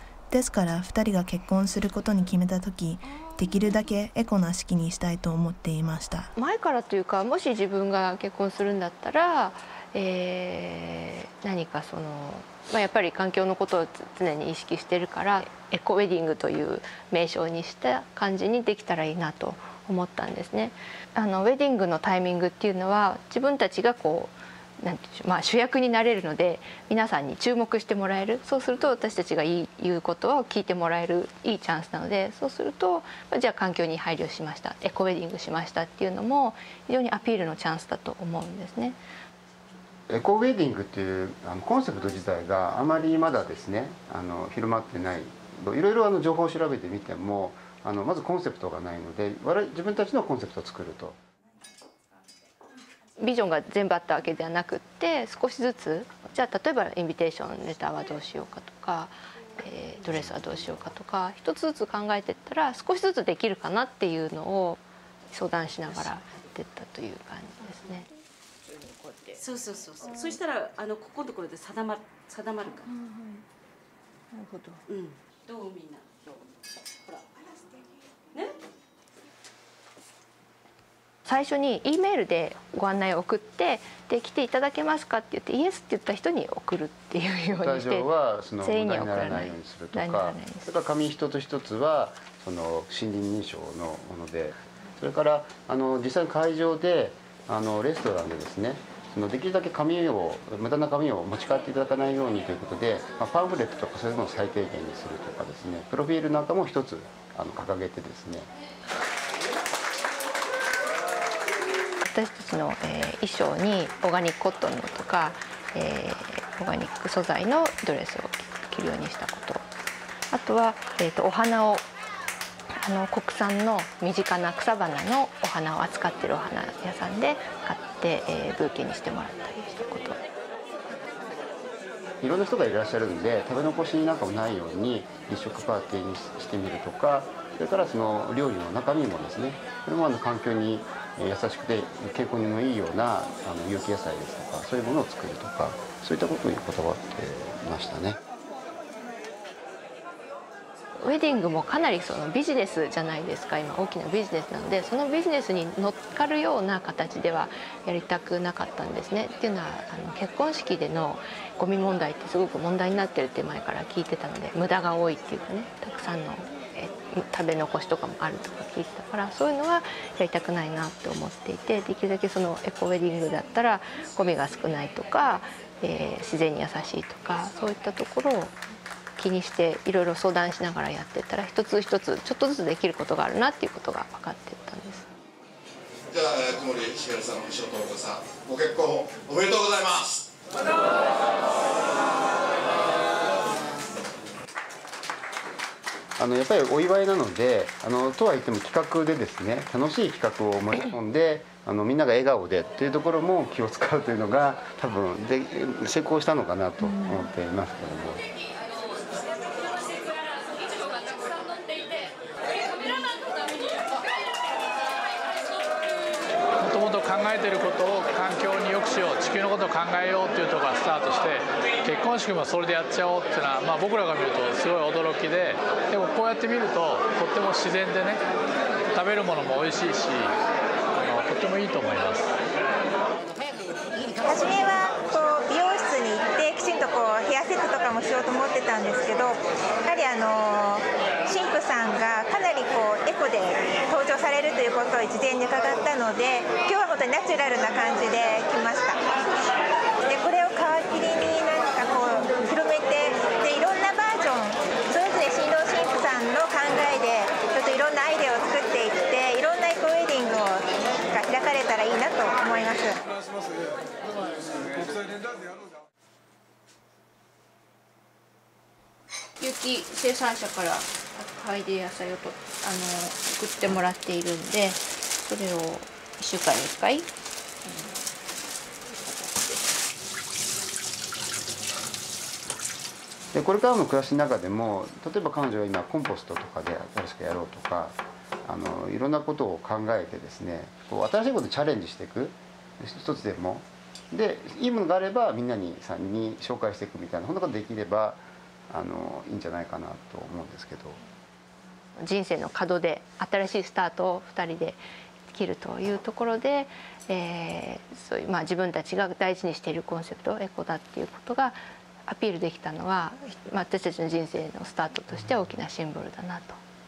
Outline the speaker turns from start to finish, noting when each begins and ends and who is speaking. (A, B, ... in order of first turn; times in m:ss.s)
0:00.3-0:06.3 A
0:06.4-0:39.0 B
0:40.1-0:51.2 C
0:53.2-1:08.1 B
1:09.4-1:12.9 D
1:14.4-1:14.8 B
1:14.9-1:16.1 D
1:21.3-1:28.1 B
1:27.6-1:48.5 C
1:28.6-1:30.8 B
1:52.0-1:59.6 B
2:00.3-2:01.9 B
2:02.8-2:10.2 B
2:12.2-2:28.2 C
2:31.0-2:58.6 B
2:59.2-3:05.1 B
3:06.2-3:10.2 E
3:16.2-3:28.2 C
3:36.6-3:48.2 F
3:48.9-3:50.3 F
3:51.0-3:52.3 F
3:54.2-4:09.1 G
4:10.1-4:23.0 G
4:29.4-4:37.1 B
4:39.0-4:39.6 B
4:43.3-5:01.0 C
5:02.0-5:16.6 B